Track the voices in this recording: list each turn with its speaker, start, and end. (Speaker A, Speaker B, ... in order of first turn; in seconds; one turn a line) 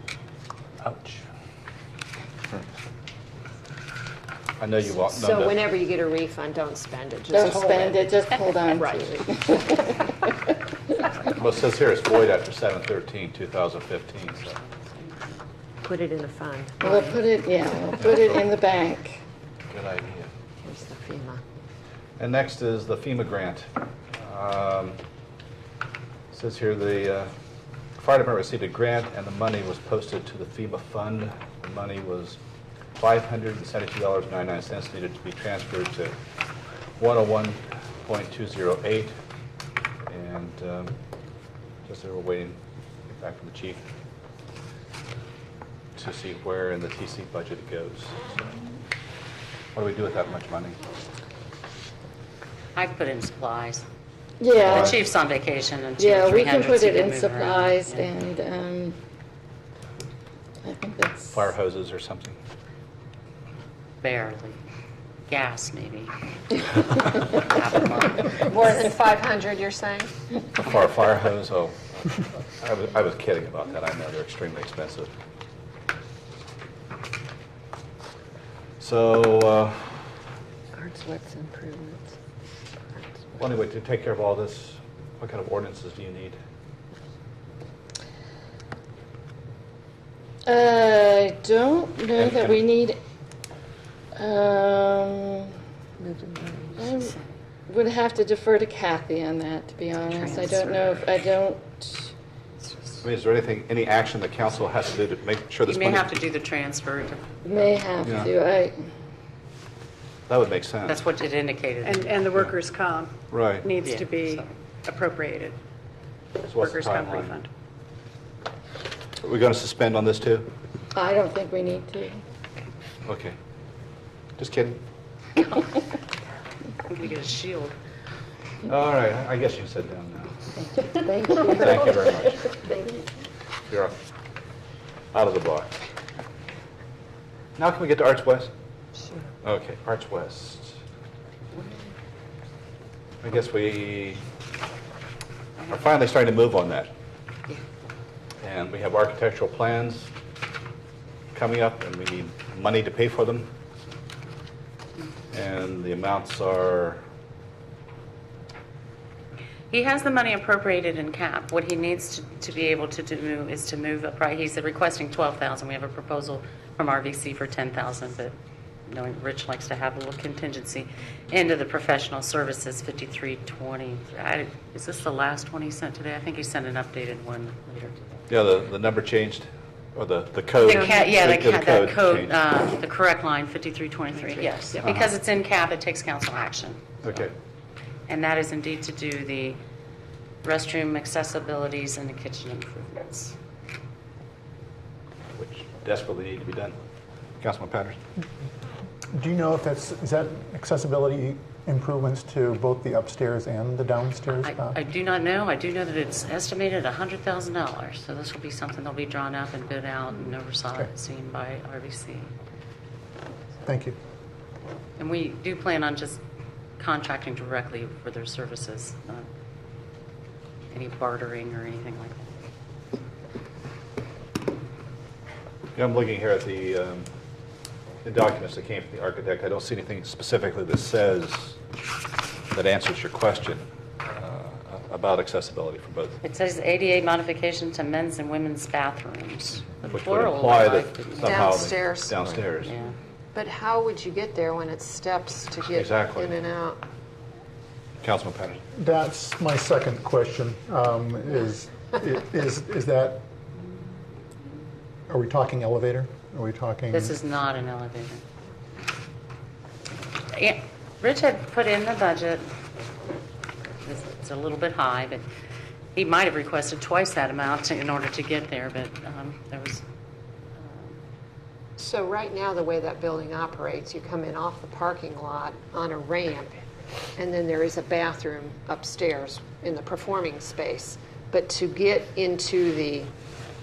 Speaker A: 0.8-1.2
Speaker A: 4.6-5.5
Speaker B: 5.1-8.1
Speaker C: 7.3-10.5
Speaker B: 8.7-9.2
Speaker A: 11.3-14.6
Speaker D: 14.6-15.3
Speaker B: 15.8-17.2
Speaker C: 16.8-19.2
Speaker A: 18.0-18.4
Speaker A: 19.7-20.3
Speaker B: 20.6-21.4
Speaker A: 22.2-25.0
Speaker A: 26.3-27.3
Speaker A: 28.0-32.4
Speaker A: 33.0-36.1
Speaker A: 37.0-39.1
Speaker A: 40.1-40.9
Speaker A: 41.9-42.6
Speaker A: 43.1-43.8
Speaker A: 46.0-48.2
Speaker A: 49.7-50.8
Speaker D: 52.8-53.9
Speaker C: 54.4-55.0
Speaker D: 54.6-58.1
Speaker A: 54.6-55.0
Speaker C: 56.0-59.0
Speaker C: 60.6-61.5
Speaker A: 61.3-62.4
Speaker D: 64.0-64.6
Speaker D: 65.3-68.3
Speaker B: 68.4-70.1
Speaker A: 70.6-75.1
Speaker A: 78.8-80.0
Speaker B: 80.7-82.1
Speaker B: 82.9-83.4
Speaker A: 83.4-86.4
Speaker C: 90.5-93.0
Speaker A: 92.1-92.6
Speaker C: 94.2-95.5
Speaker B: 96.0-96.9
Speaker C: 96.8-97.2
Speaker C: 97.7-102.1
Speaker D: 100.2-101.0
Speaker A: 103.0-106.2
Speaker D: 105.7-107.7
Speaker C: 107.4-108.8
Speaker A: 108.0-108.3
Speaker A: 110.3-111.0
Speaker D: 110.9-112.2
Speaker E: 111.8-115.6
Speaker A: 113.3-113.7
Speaker D: 113.8-114.5
Speaker A: 116.5-117.4
Speaker E: 116.5-117.5
Speaker A: 119.2-120.5
Speaker C: 121.0-122.2
Speaker A: 123.1-123.3
Speaker A: 124.4-124.8
Speaker D: 125.4-125.6
Speaker D: 126.9-127.8
Speaker A: 128.7-130.4
Speaker A: 131.5-132.6
Speaker A: 135.1-135.8
Speaker A: 137.6-138.5
Speaker A: 139.4-140.8
Speaker A: 143.2-144.2
Speaker A: 145.7-146.9
Speaker A: 148.4-150.1
Speaker A: 151.3-153.5
Speaker A: 155.3-157.0
Speaker D: 159.7-168.3
Speaker D: 168.9-178.2
Speaker A: 178.3-182.3
Speaker D: 180.6-187.2
Speaker A: 184.8-185.1
Speaker A: 187.0-187.3
Speaker D: 188.1-189.6
Speaker D: 190.4-193.4
Speaker A: 195.4-196.8
Speaker A: 197.4-198.0
Speaker F: 199.2-204.8
Speaker D: 204.4-212.3
Speaker F: 213.7-214.0
Speaker D: 215.0-216.2
Speaker D: 216.8-219.3
Speaker D: 220.7-222.3
Speaker A: 225.8-227.1
Speaker A: 228.0-231.6
Speaker A: 232.5-236.2
Speaker D: 236.2-241.6
Speaker A: 239.9-242.7
Speaker B: 241.2-242.2
Speaker D: 242.6-242.9
Speaker B: 243.3-246.8
Speaker A: 245.7-246.3
Speaker A: 248.0-248.6
Speaker F: 248.8-253.2
Speaker F: 255.1-257.2
Speaker D: 256.9-258.2
Speaker D: 260.3-262.5
Speaker D: 263.8-265.2
Speaker D: 265.9-269.8
Speaker D: 270.6-271.0
Speaker B: 271.8-276.5
Speaker B: 277.2-283.1